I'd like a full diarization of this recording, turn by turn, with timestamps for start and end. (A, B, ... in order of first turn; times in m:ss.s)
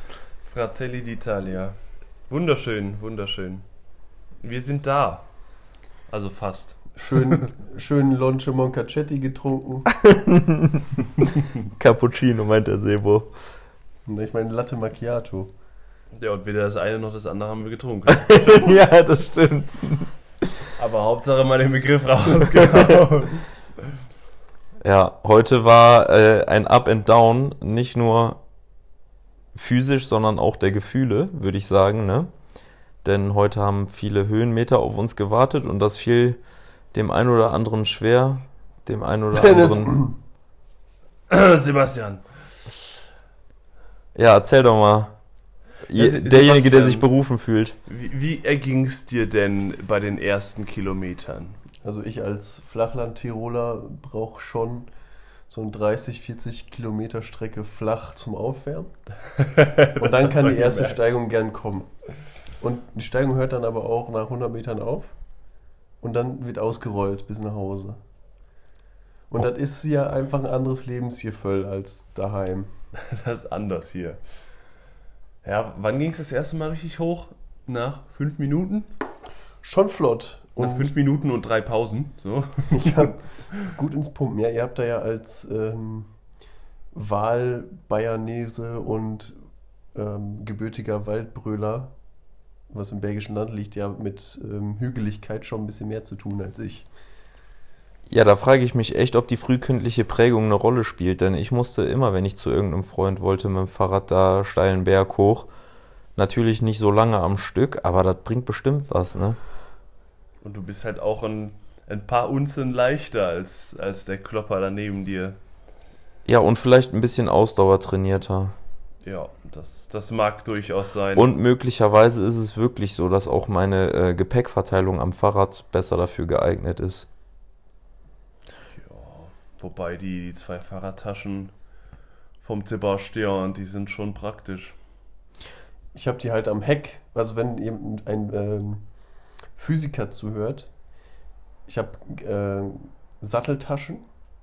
0:00.5-0:01.8 A
0:02.3-0:03.6 A
0:04.4-0:05.3 A
0:06.1-0:07.4 A
0:07.0-0:09.9 B
0:10.0-0:11.1 C
0:11.2-0:11.5 A
0:11.8-0:13.3 C
0:14.1-0:15.5 B
0:16.1-0:18.4 A
0:18.1-0:20.1 C
0:20.8-0:23.9 A
0:24.8-0:28.4 C
0:29.6-0:32.3 C
0:33.0-0:36.4 C
0:36.9-0:40.0 C
0:39.4-0:40.2 B
0:41.3-0:42.2 A
0:44.2-0:45.2 C
0:45.9-0:47.8 C
0:45.9-0:47.1 A
0:47.9-0:51.6 A
0:51.8-0:54.9 B
0:55.5-0:58.9 B
0:59.4-1:01.2 A
1:00.0-1:01.9 B
1:02.6-1:05.1 B
1:06.0-1:08.0 B
1:09.3-1:12.7 B
1:13.0-1:14.2 A
1:15.4-1:18.9 A
1:19.6-1:20.9 B
1:20.6-1:23.7 A
1:22.7-1:23.2 B
1:23.7-1:26.1 B
1:26.9-1:29.4 B
1:30.0-1:31.9 B
1:32.7-1:36.9 B
1:38.1-1:45.5 C
1:46.2-1:49.4 C
1:50.4-1:55.4 A
1:56.3-1:58.6 C
1:59.0-2:01.3 A
2:01.2-2:07.1 C
2:08.7-2:11.5 A
2:12.4-2:14.8 A
2:15.9-2:18.8 B
2:19.6-2:20.7 B
2:21.7-2:24.0 B